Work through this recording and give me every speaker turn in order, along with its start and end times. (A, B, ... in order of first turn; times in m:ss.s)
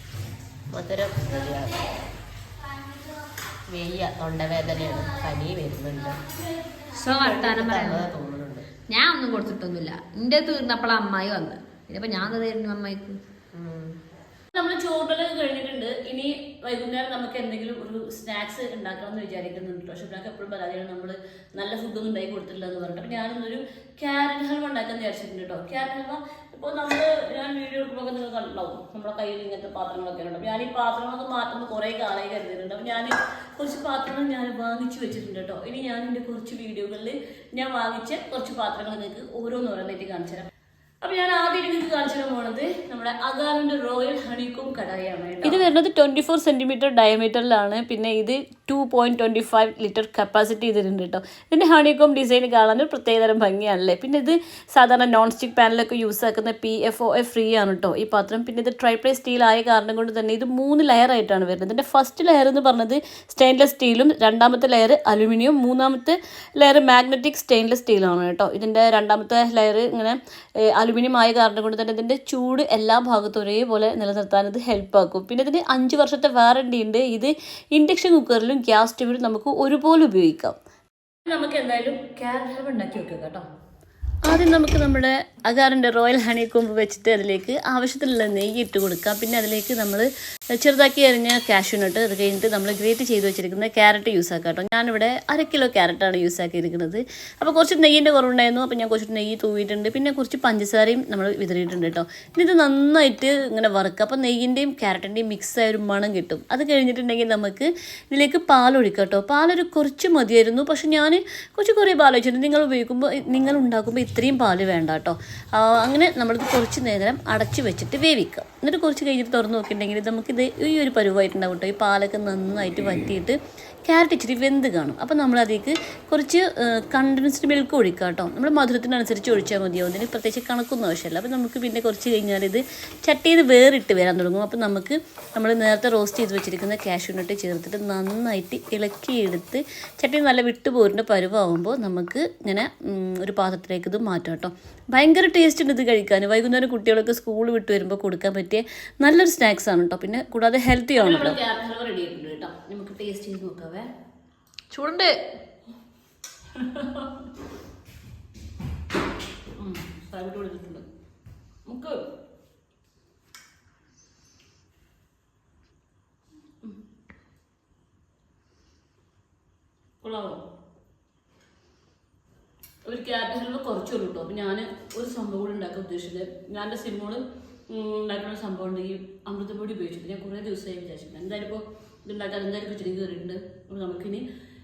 0:00.7-0:01.9 A
0:03.7-0:06.2 A
0:06.9-0:08.1 B
0:07.2-0:08.7 A
0:08.9-0:13.2 B
0:13.5-0:14.0 A
0:14.5-0:40.5 C
0:41.0-1:10.2 C
1:10.7-1:20.6 C
1:21.2-1:23.4 C
1:24.2-2:33.9 C
2:34.7-2:35.1 B
2:36.6-2:37.1 C
2:39.6-2:40.8 C
2:41.7-2:42.0 C
2:50.0-2:50.4 C
2:52.9-3:04.2 C